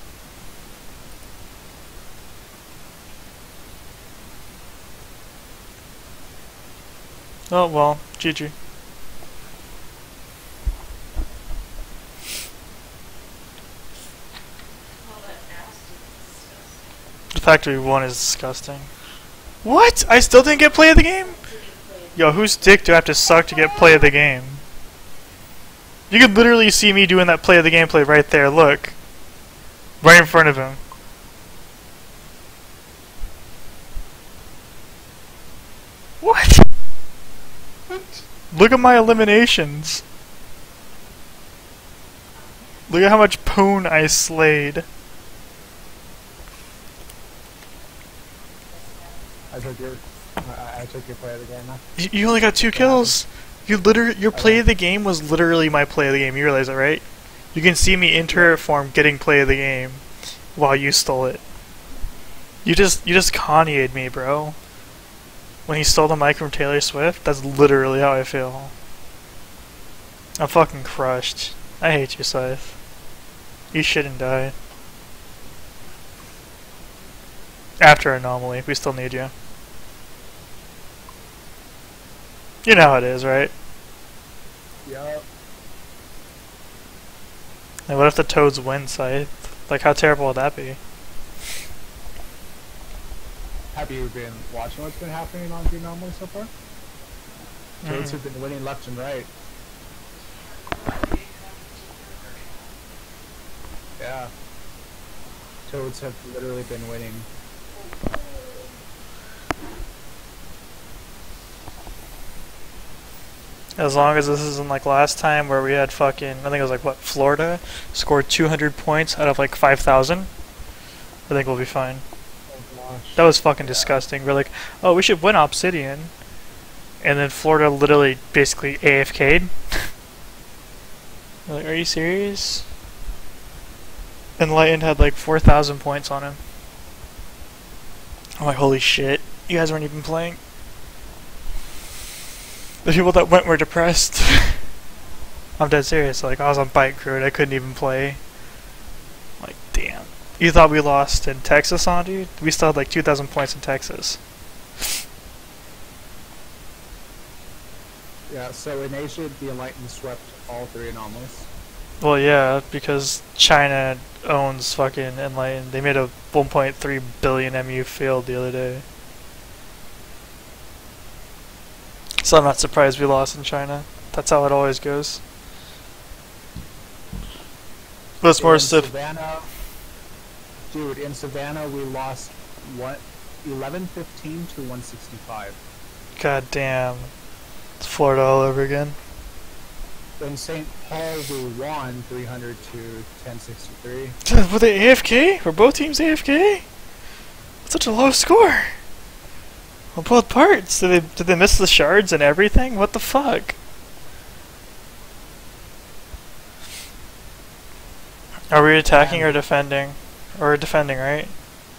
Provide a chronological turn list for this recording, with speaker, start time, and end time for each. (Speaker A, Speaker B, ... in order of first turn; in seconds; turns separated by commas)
Speaker A: 7.5-8.5, Speaker B: 15.0-17.0, Speaker A: 17.3-18.9, Speaker A: 19.6-21.4, Speaker B: 20.4-23.0, Speaker A: 22.2-24.6, Speaker A: 26.1-28.9, Speaker A: 30.0-30.8, Speaker A: 36.2-36.7, Speaker A: 38.5-40.0, Speaker B: 42.3-43.2, Speaker A: 42.9-44.9, Speaker B: 48.7-50.3, Speaker C: 49.5-51.8, Speaker A: 52.0-60.0, Speaker C: 52.7-53.2, Speaker C: 54.3-54.6, Speaker C: 58.3-58.6, Speaker A: 60.5-61.4, Speaker A: 62.6-64.6, Speaker A: 65.7-68.7, Speaker A: 70.4-72.8, Speaker A: 73.7-74.5, Speaker A: 77.8-79.3, Speaker A: 82.7-83.5, Speaker C: 84.8-85.2, Speaker A: 87.9-90.8, Speaker C: 93.7-96.5, Speaker A: 97.8-98.2, Speaker C: 97.8-99.3, Speaker B: 100.2-102.8, Speaker C: 104.0-104.3, Speaker C: 105.7-107.3, Speaker B: 107.8-108.8, Speaker A: 113.8-120.3, Speaker A: 121.3-122.0, Speaker C: 122.5-124.0, Speaker A: 123.2-126.1, Speaker A: 127.0-129.9, Speaker A: 131.5-132.7, Speaker A: 134.4-136.4, Speaker A: 138.4-140.4, Speaker A: 142.8-144.6, Speaker B: 145.0-145.4, Speaker A: 145.6-148.2, Speaker A: 149.4-154.2, Speaker C: 158.3-161.5, Speaker A: 162.0-168.8, Speaker A: 172.2-175.2, Speaker A: 178.2-178.9, Speaker C: 178.4-179.5, Speaker C: 180.7-185.6, Speaker A: 186.2-187.1, Speaker A: 187.8-189.0, Speaker C: 190.2-194.2, Speaker A: 194.3-196.7, Speaker A: 197.7-198.8, Speaker A: 199.9-203.6, Speaker A: 208.5-211.3, Speaker C: 208.9-209.4